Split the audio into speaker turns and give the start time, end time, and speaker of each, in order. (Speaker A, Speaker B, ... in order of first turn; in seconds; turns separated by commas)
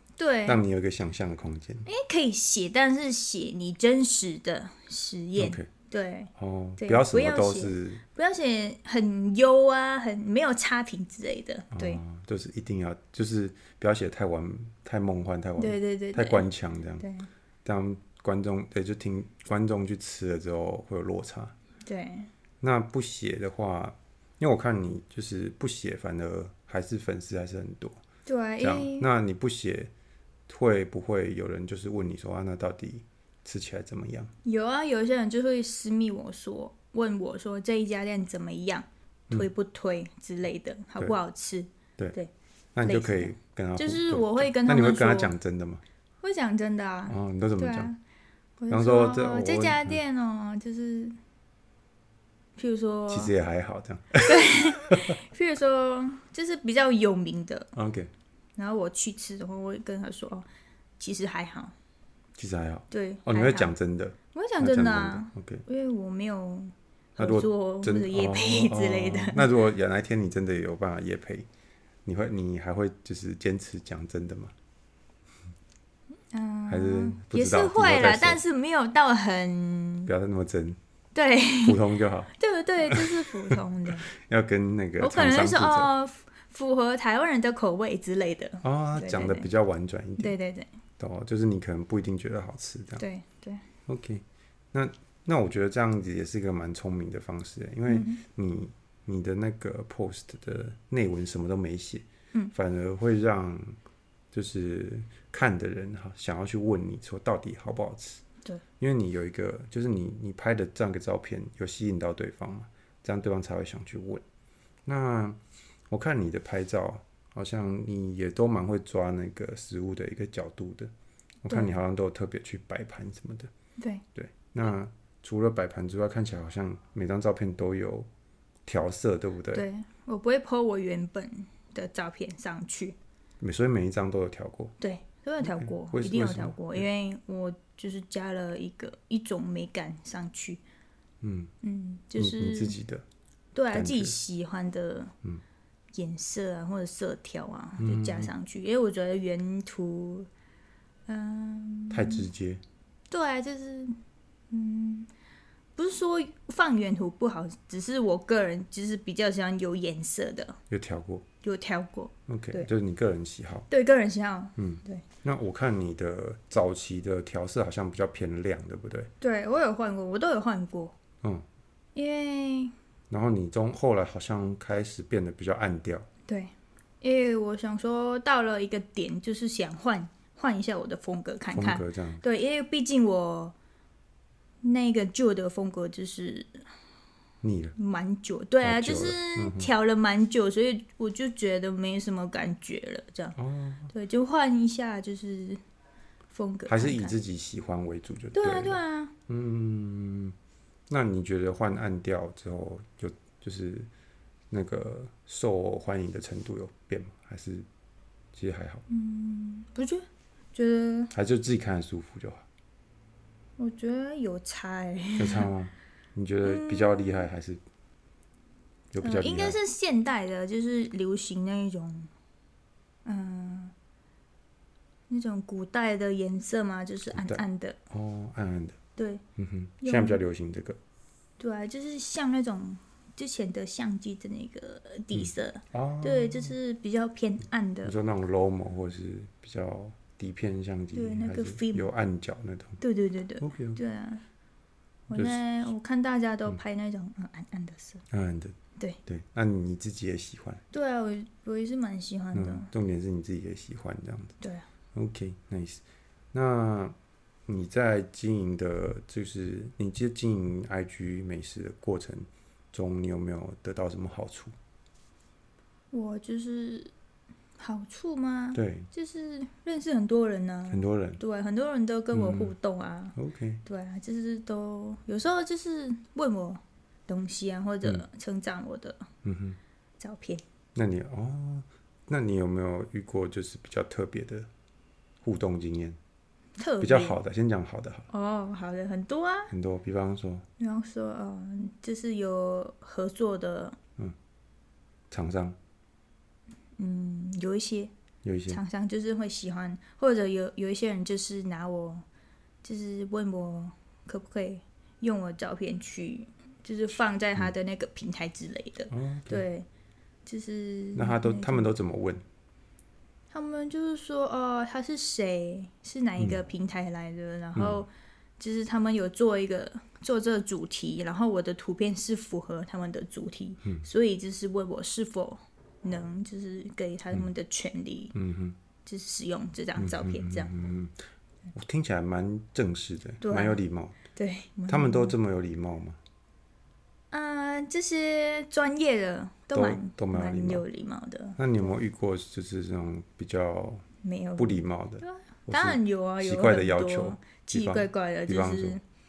Speaker A: 0.2-0.6, Speaker B: 0.5-1.9, Speaker A: 1.9-12.0, Speaker B: 5.4-5.7, Speaker B: 6.3-8.0, Speaker B: 11.7-17.0, Speaker A: 15.6-16.4, Speaker A: 17.0-17.3, Speaker B: 17.6-21.5, Speaker A: 21.9-22.3, Speaker B: 22.6-28.0, Speaker A: 28.2-29.1, Speaker B: 28.6-29.9, Speaker B: 30.5-34.3, Speaker A: 34.4-42.3, Speaker B: 42.8-45.8, Speaker A: 42.8-45.3, Speaker A: 46.2-48.0, Speaker B: 47.1-47.9, Speaker A: 48.6-51.2, Speaker B: 48.7-50.0, Speaker A: 52.6-53.3, Speaker B: 53.1-55.2, Speaker A: 54.2-57.7, Speaker B: 57.7-58.1, Speaker A: 58.6-60.5, Speaker A: 61.0-61.7, Speaker B: 62.4-65.6, Speaker A: 62.9-63.7, Speaker A: 64.3-69.5, Speaker B: 67.2-71.5, Speaker B: 72.0-74.5, Speaker A: 76.3-80.1, Speaker B: 76.7-78.4, Speaker B: 80.0-80.8, Speaker A: 81.1-81.8, Speaker B: 81.6-82.3, Speaker A: 82.3-84.1, Speaker B: 82.9-85.9, Speaker A: 85.0-89.5, Speaker B: 88.6-90.3, Speaker A: 90.2-90.7, Speaker B: 91.0-93.0, Speaker A: 93.0-93.6, Speaker B: 93.8-103.8, Speaker A: 97.9-98.2, Speaker B: 104.3-108.2, Speaker B: 108.8-114.2, Speaker B: 114.8-120.9, Speaker B: 121.4-123.5, Speaker A: 121.5-121.8, Speaker A: 123.8-124.0, Speaker B: 124.1-128.1, Speaker B: 128.7-129.7, Speaker A: 129.5-132.9, Speaker B: 133.4-134.7, Speaker A: 134.8-140.6, Speaker B: 135.4-136.9, Speaker B: 141.2-141.5, Speaker A: 141.6-142.8, Speaker B: 142.2-143.0, Speaker A: 143.5-145.1, Speaker B: 143.7-144.1, Speaker A: 145.9-150.3, Speaker B: 147.8-148.3, Speaker A: 151.1-152.2, Speaker B: 151.9-152.6, Speaker A: 153.1-153.9, Speaker A: 154.5-155.1, Speaker A: 155.8-160.6, Speaker B: 160.7-161.2, Speaker A: 161.4-162.7, Speaker B: 162.3-163.7, Speaker A: 163.7-165.0, Speaker B: 164.6-169.1, Speaker A: 169.2-170.9, Speaker A: 171.9-172.7, Speaker B: 173.1-176.1, Speaker A: 176.3-183.5, Speaker B: 181.5-182.2, Speaker A: 184.6-186.6, Speaker B: 187.4-187.8, Speaker A: 187.8-193.4, Speaker B: 188.6-189.7, Speaker B: 193.4-193.9, Speaker A: 193.9-195.6, Speaker A: 196.3-197.1, Speaker B: 196.7-200.3, Speaker A: 198.3-199.1, Speaker B: 200.9-203.9, Speaker B: 204.5-207.7, Speaker B: 208.3-208.8, Speaker A: 208.9-211.1, Speaker B: 211.1-212.4, Speaker A: 213.6-215.5, Speaker B: 215.2-217.6, Speaker A: 216.4-217.3, Speaker B: 218.9-219.6, Speaker A: 219.0-222.1, Speaker A: 223.0-223.7, Speaker A: 225.1-227.8, Speaker B: 227.1-228.8, Speaker A: 229.0-229.2, Speaker B: 229.3-230.8, Speaker A: 229.8-230.2, Speaker A: 231.4-237.9, Speaker B: 235.1-236.5, Speaker B: 237.8-242.8, Speaker A: 240.9-241.9, Speaker A: 242.8-244.2, Speaker B: 243.4-243.8, Speaker A: 245.1-248.0, Speaker B: 245.1-245.4, Speaker B: 248.1-250.6, Speaker A: 250.7-252.7, Speaker B: 252.3-254.4, Speaker A: 254.4-254.7, Speaker B: 254.9-255.8, Speaker B: 256.3-264.5, Speaker A: 265.9-266.9, Speaker A: 267.6-279.1, Speaker B: 268.5-268.9, Speaker B: 270.7-271.2, Speaker B: 272.1-272.5, Speaker B: 273.1-273.6, Speaker B: 279.2-279.6, Speaker A: 280.0-280.4, Speaker B: 280.8-284.5, Speaker B: 285.2-286.0, Speaker A: 286.6-287.2, Speaker B: 286.8-288.1, Speaker A: 288.1-289.5, Speaker B: 289.5-290.4, Speaker A: 290.6-293.8, Speaker B: 295.1-295.6, Speaker A: 296.8-297.9, Speaker B: 298.2-298.6, Speaker A: 298.5-302.0, Speaker A: 302.6-309.7, Speaker B: 308.9-309.4, Speaker A: 310.2-311.7, Speaker B: 310.9-312.2, Speaker A: 313.3-328.1, Speaker B: 316.2-316.4, Speaker B: 317.6-317.8, Speaker B: 328.1-328.6, Speaker A: 328.8-330.5, Speaker B: 329.8-330.9, Speaker B: 331.5-334.0, Speaker A: 333.2-333.6, Speaker A: 334.1-335.1, Speaker B: 334.7-336.0, Speaker A: 337.1-341.4, Speaker B: 339.5-340.6, Speaker B: 341.4-343.9, Speaker A: 344.0-348.8, Speaker B: 344.4-348.8